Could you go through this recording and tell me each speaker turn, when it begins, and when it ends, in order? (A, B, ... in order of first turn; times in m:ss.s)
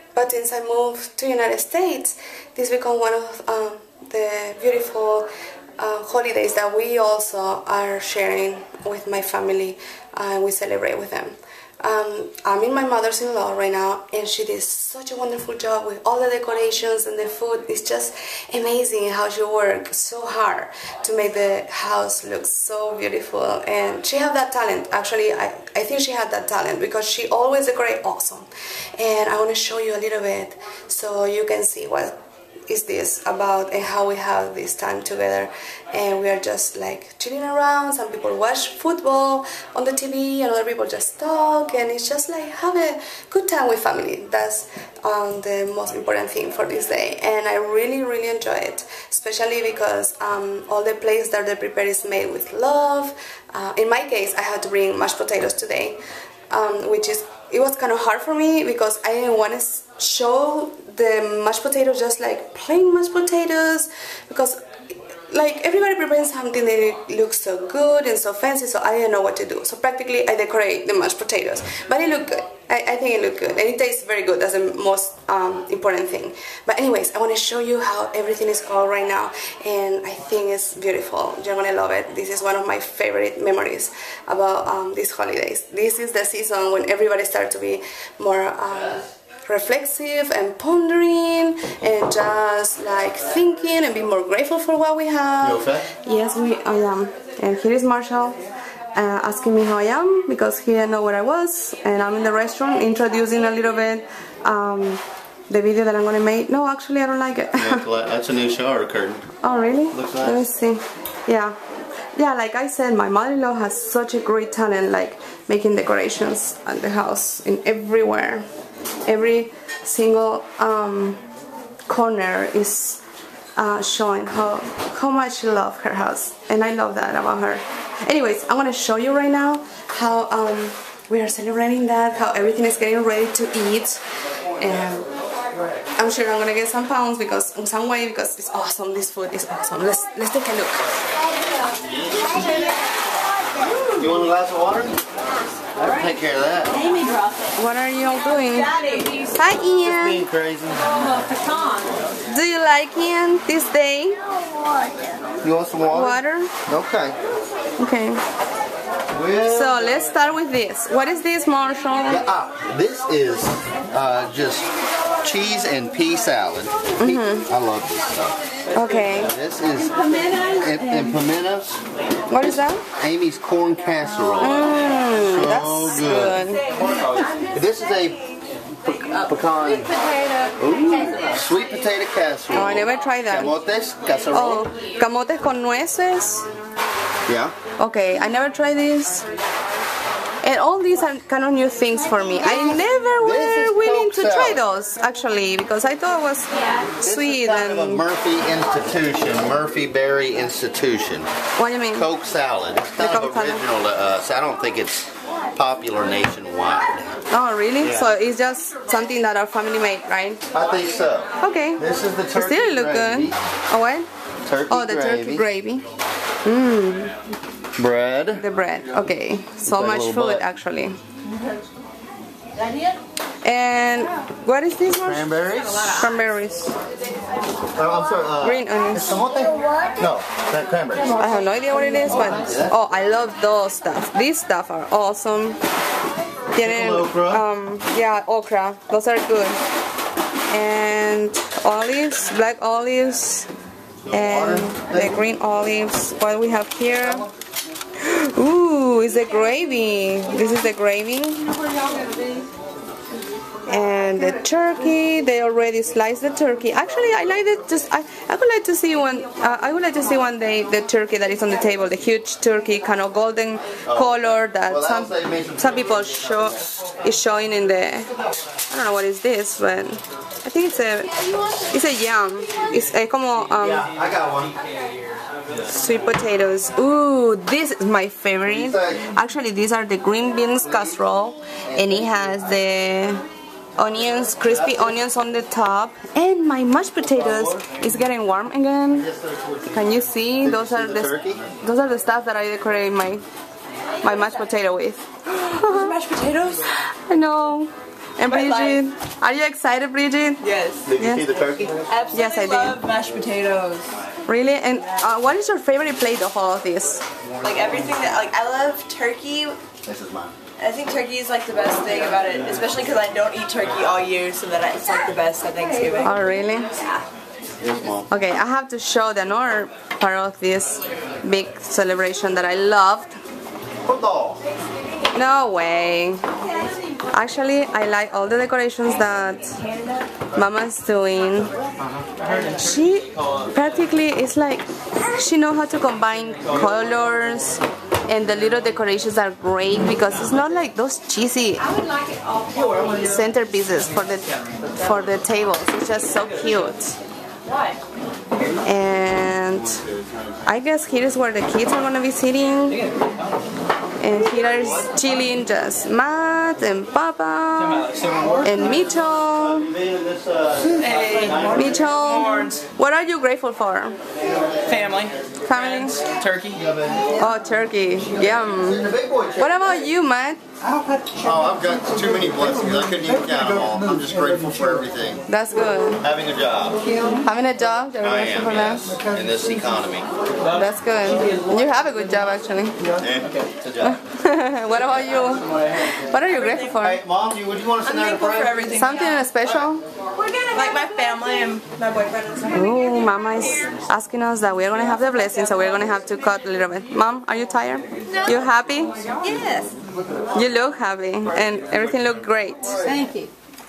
0:00.2-0:32.2 A
0:32.7-1:04.6 A
1:05.3-1:38.4 A
1:35.4-1:35.9 B
1:39.0-1:47.8 A
1:47.6-1:49.2 B
1:49.4-1:51.6 A
1:49.9-1:50.4 B
1:52.2-1:58.5 A
1:59.1-2:01.2 A
2:01.9-2:03.0 A
2:03.6-2:14.0 A
2:14.6-2:15.1 A
2:16.0-2:20.9 A
2:21.8-2:22.7 B
2:23.9-2:25.0 B
2:25.8-2:26.8 B
2:26.8-2:27.3 C
2:27.6-2:28.7 A
2:28.4-2:29.3 C
2:29.3-2:30.2 A
2:29.8-2:31.1 B
2:32.2-2:34.2 A
2:35.4-2:37.2 B
2:35.9-2:36.5 A
2:37.8-2:38.2 A
2:39.1-2:40.2 B
2:39.5-2:42.2 A
2:42.1-2:44.7 B
2:45.2-2:48.4 B
2:47.0-2:47.5 A
2:48.7-2:49.3 A
2:49.1-2:50.0 B
2:50.5-2:51.8 B
2:52.3-2:52.8 A
2:53.0-2:58.2 B
2:54.4-2:56.6 A
2:58.8-2:59.9 B
3:00.2-3:00.5 C
3:00.6-3:04.7 B
3:02.5-3:03.6 A
3:04.3-3:06.5 A
3:07.3-3:07.6 B
3:07.8-3:09.3 A
3:10.4-3:18.0 A
3:12.4-3:14.6 B
3:17.0-3:21.3 B
3:21.6-3:22.1 A
3:21.9-3:27.1 B
3:23.0-3:23.6 A
3:27.3-3:30.4 A
3:27.8-3:28.1 B
3:30.5-3:33.4 B
3:31.4-3:34.1 A
3:34.5-3:35.4 B
3:34.7-3:35.8 A
3:36.4-3:37.1 A
3:37.8-3:38.4 B
3:38.4-3:41.0 A
3:39.7-3:40.4 B
3:43.4-3:46.7 A
3:45.0-3:46.1 B
3:47.8-3:51.2 B
3:48.4-3:49.2 A
3:51.2-3:55.6 A
3:52.2-3:52.7 B
3:56.5-3:59.6 A
3:56.6-3:57.4 B
4:00.5-4:03.5 A
4:04.1-4:05.2 B
4:04.1-4:07.3 A
4:08.0-4:11.5 A
4:13.7-4:28.1 A
4:23.9-4:24.2 B
4:24.7-4:26.5 B
4:28.7-4:33.9 A
4:33.6-4:34.6 B
4:35.7-4:43.2 A
4:38.4-4:39.1 B
4:41.7-4:42.2 B
4:43.8-4:49.1 A
4:44.4-4:44.9 B
4:47.0-4:47.6 B
4:49.0-4:51.4 B
4:49.7-4:53.2 A
4:54.0-4:55.9 A
4:55.4-4:56.8 C
4:56.9-5:01.3 A
4:58.3-4:58.8 C
5:00.4-5:00.8 C
5:00.9-5:01.8 B
5:01.9-5:04.0 C
5:02.1-5:02.8 A
5:04.3-5:07.0 A
5:07.4-5:09.6 C
5:09.8-5:10.3 B
5:10.6-5:17.0 C
5:16.0-5:16.7 A
5:17.6-5:18.1 B
5:18.1-5:23.2 A
5:23.8-5:24.4 B
5:25.1-5:26.2 A
5:27.1-5:29.6 A
5:29.7-5:30.0 C
5:30.3-5:31.5 A
5:32.5-5:41.7 A
5:41.8-5:42.9 C
5:42.9-5:47.0 A
5:47.5-5:47.8 C
5:48.6-5:49.8 A
5:50.4-5:52.8 A
5:54.0-5:59.7 A
5:57.6-5:58.5 D
5:58.6-6:02.2 B
6:00.8-6:01.4 C
6:00.8-6:02.6 D
6:01.5-6:04.0 A
6:04.3-6:04.7 B
6:04.7-6:06.6 D
6:05.4-6:06.0 A
6:06.5-6:07.3 B
6:07.2-6:10.4 A
6:08.1-6:09.7 B
6:11.1-6:15.2 B
6:15.3-6:16.0 A
6:16.0-6:16.8 B
6:17.2-6:18.8 A
6:18.0-6:20.1 B
6:20.5-6:22.8 A
6:23.0-6:24.0 B
6:23.8-6:27.0 A
6:26.4-6:26.7 C
6:26.8-6:28.8 B
6:27.8-6:29.3 C
6:28.7-6:29.8 A
6:30.2-6:33.7 C
6:32.5-6:38.9 A
6:34.9-6:35.9 C
6:38.1-6:38.4 C
6:39.2-6:39.7 C
6:40.3-6:42.9 A
6:42.8-6:43.3 C